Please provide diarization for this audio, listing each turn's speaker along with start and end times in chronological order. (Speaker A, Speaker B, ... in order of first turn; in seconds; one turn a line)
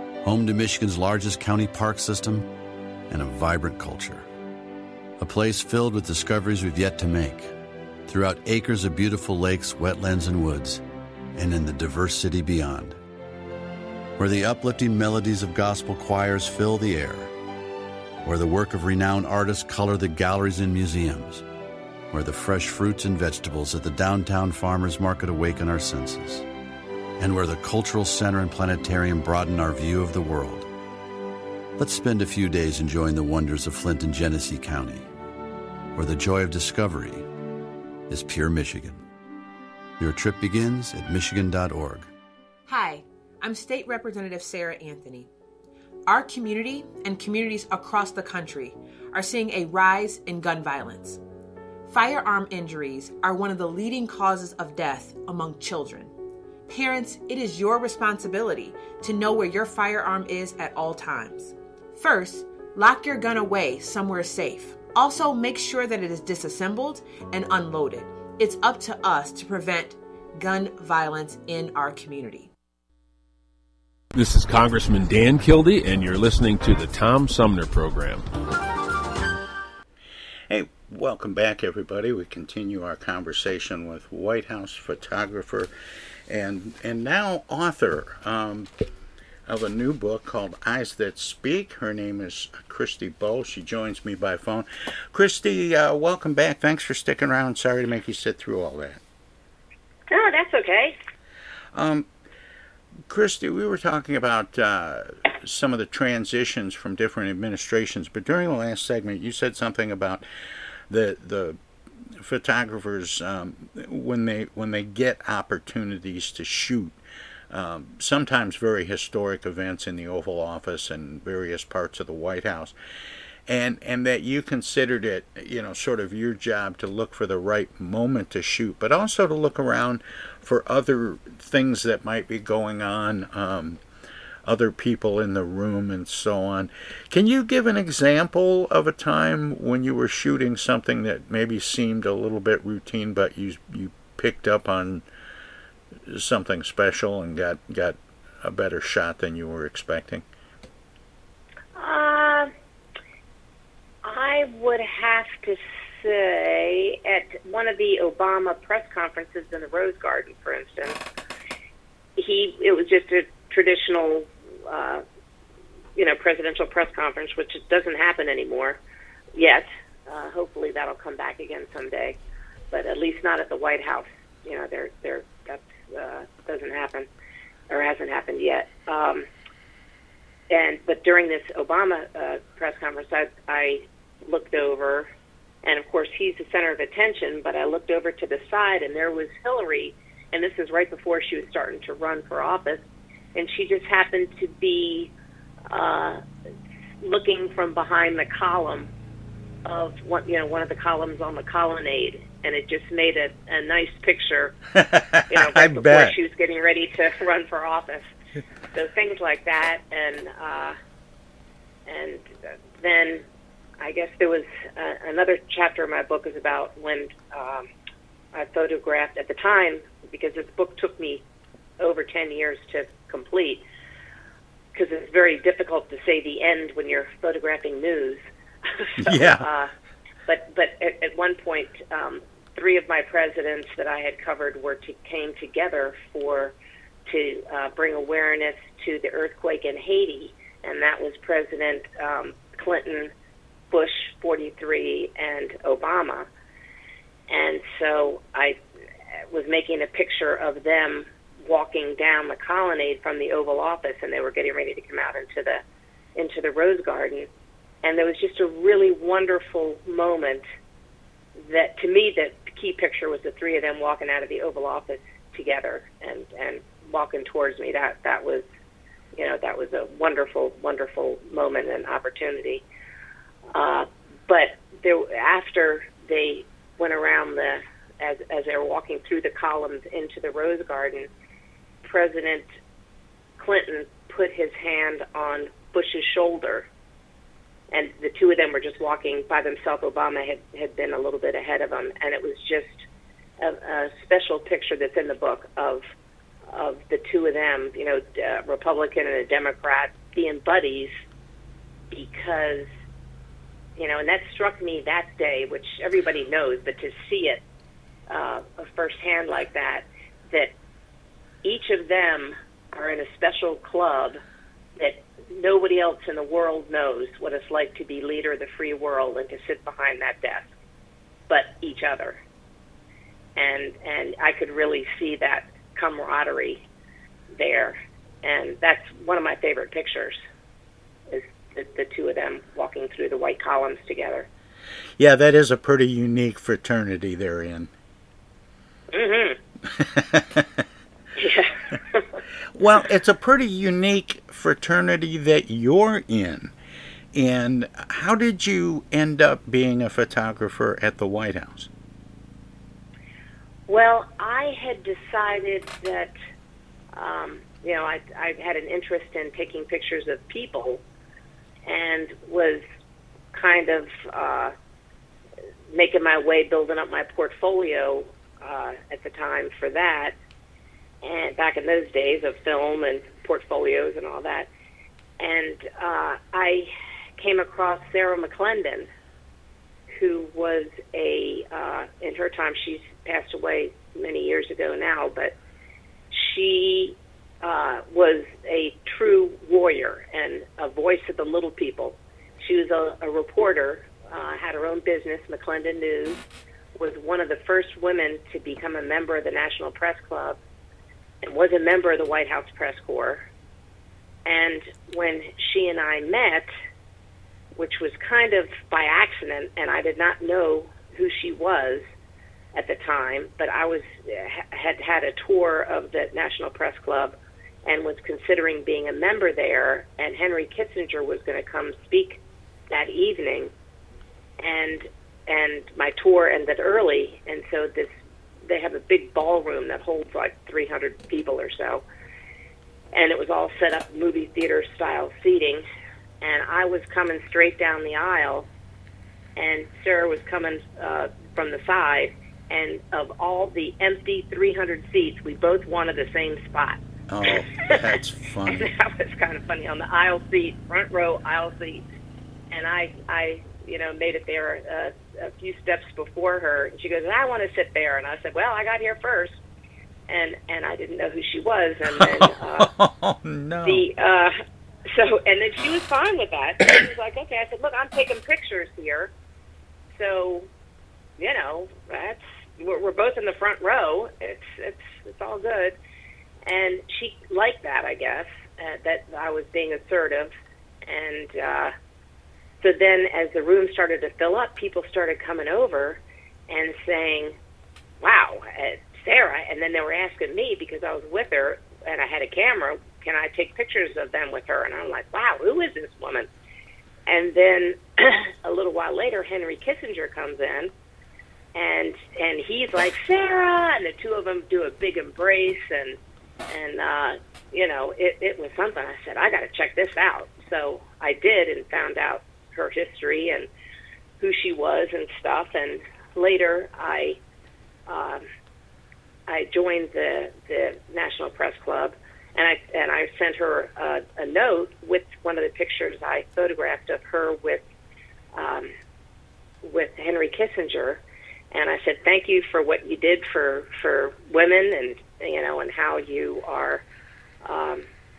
Speaker A: 0.2-2.5
Speaker A: 3.1-4.2
Speaker A: 5.2-7.5
Speaker A: 8.1-10.8
Speaker A: 11.3-13.0
Speaker A: 14.2-17.3
Speaker A: 18.2-21.4
Speaker A: 22.1-26.4
Speaker A: 27.2-30.7
Speaker A: 31.8-35.0
Speaker A: 35.9-37.2
Speaker A: 38.1-39.0
Speaker A: 40.0-42.1
Speaker B: 42.7-45.3
Speaker B: 46.0-51.2
Speaker B: 51.9-56.1
Speaker B: 56.7-72.5
Speaker C: 74.1-78.2
Speaker D: 80.5-85.7
Speaker D: 86.3-88.7
Speaker D: 89.5-99.0
Speaker E: 100.1-100.9
Speaker D: 101.7-102.1
Speaker D: 103.1-110.2
Speaker D: 110.9-111.6
Speaker D: 112.2-117.0
Speaker D: 117.5-122.7
Speaker D: 123.5-133.8
Speaker D: 134.4-145.0
Speaker D: 146.1-150.2
Speaker E: 151.8-152.5
Speaker E: 154.0-161.0
Speaker E: 162.2-165.0
Speaker E: 165.9-168.8
Speaker E: 169.3-172.2
Speaker E: 172.7-177.1
Speaker E: 177.7-179.2
Speaker E: 180.5-185.1
Speaker E: 185.6-192.8
Speaker E: 193.3-195.1
Speaker E: 195.7-196.2
Speaker E: 197.0-198.9
Speaker E: 199.6-204.5
Speaker D: 204.7-206.1
Speaker E: 205.3-208.1
Speaker E: 208.7-210.8
Speaker E: 211.9-212.3
Speaker E: 212.8-213.2
Speaker E: 213.8-217.7
Speaker E: 218.3-221.2
Speaker E: 221.8-223.6
Speaker E: 224.7-229.7
Speaker D: 229.0-229.4
Speaker E: 230.3-236.5
Speaker E: 237.1-243.1
Speaker E: 243.7-246.3
Speaker E: 247.3-248.6
Speaker E: 249.3-255.6
Speaker E: 256.1-257.3
Speaker E: 257.8-260.4
Speaker E: 261.4-268.4
Speaker E: 269.1-272.6
Speaker E: 273.5-281.1
Speaker E: 281.8-282.5
Speaker E: 283.4-286.7
Speaker E: 287.7-292.8
Speaker E: 293.4-295.8
Speaker E: 296.5-300.9
Speaker E: 301.9-302.7
Speaker E: 303.8-307.4
Speaker E: 308.1-310.5
Speaker E: 311.4-314.2
Speaker E: 314.8-320.5
Speaker E: 321.3-322.2
Speaker E: 323.4-326.6
Speaker E: 327.4-330.2
Speaker E: 331.1-334.3
Speaker D: 335.0-337.7
Speaker E: 338.9-339.4
Speaker D: 339.7-340.6
Speaker E: 341.2-342.1
Speaker D: 342.5-346.5
Speaker D: 347.1-351.7
Speaker E: 353.7-356.1
Speaker E: 356.9-360.8
Speaker E: 361.7-362.6
Speaker E: 363.3-364.5
Speaker E: 365.7-370.1
Speaker E: 371.0-374.5
Speaker E: 375.2-378.9
Speaker E: 379.9-385.3
Speaker E: 386.1-396.2
Speaker E: 396.8-400.4
Speaker E: 401.2-403.2
Speaker E: 404.2-406.5
Speaker E: 407.6-411.8
Speaker E: 412.5-417.1
Speaker E: 417.6-423.5
Speaker E: 424.4-427.9
Speaker E: 428.4-431.8
Speaker E: 432.9-435.6
Speaker E: 436.2-438.5
Speaker E: 439.4-447.7
Speaker D: 447.1-448.7
Speaker E: 448.5-451.8
Speaker E: 452.5-459.4
Speaker E: 460.1-462.7
Speaker D: 461.9-463.8
Speaker E: 463.6-469.1
Speaker E: 469.9-470.5
Speaker E: 471.2-475.8
Speaker E: 476.4-480.3
Speaker E: 480.9-481.7
Speaker E: 482.6-487.3
Speaker E: 488.0-496.3
Speaker E: 497.1-500.7
Speaker E: 501.5-506.0
Speaker E: 506.5-513.5
Speaker E: 514.2-517.2
Speaker E: 517.9-518.2
Speaker E: 519.3-527.6
Speaker E: 528.3-528.7
Speaker E: 529.6-536.8
Speaker E: 537.4-537.8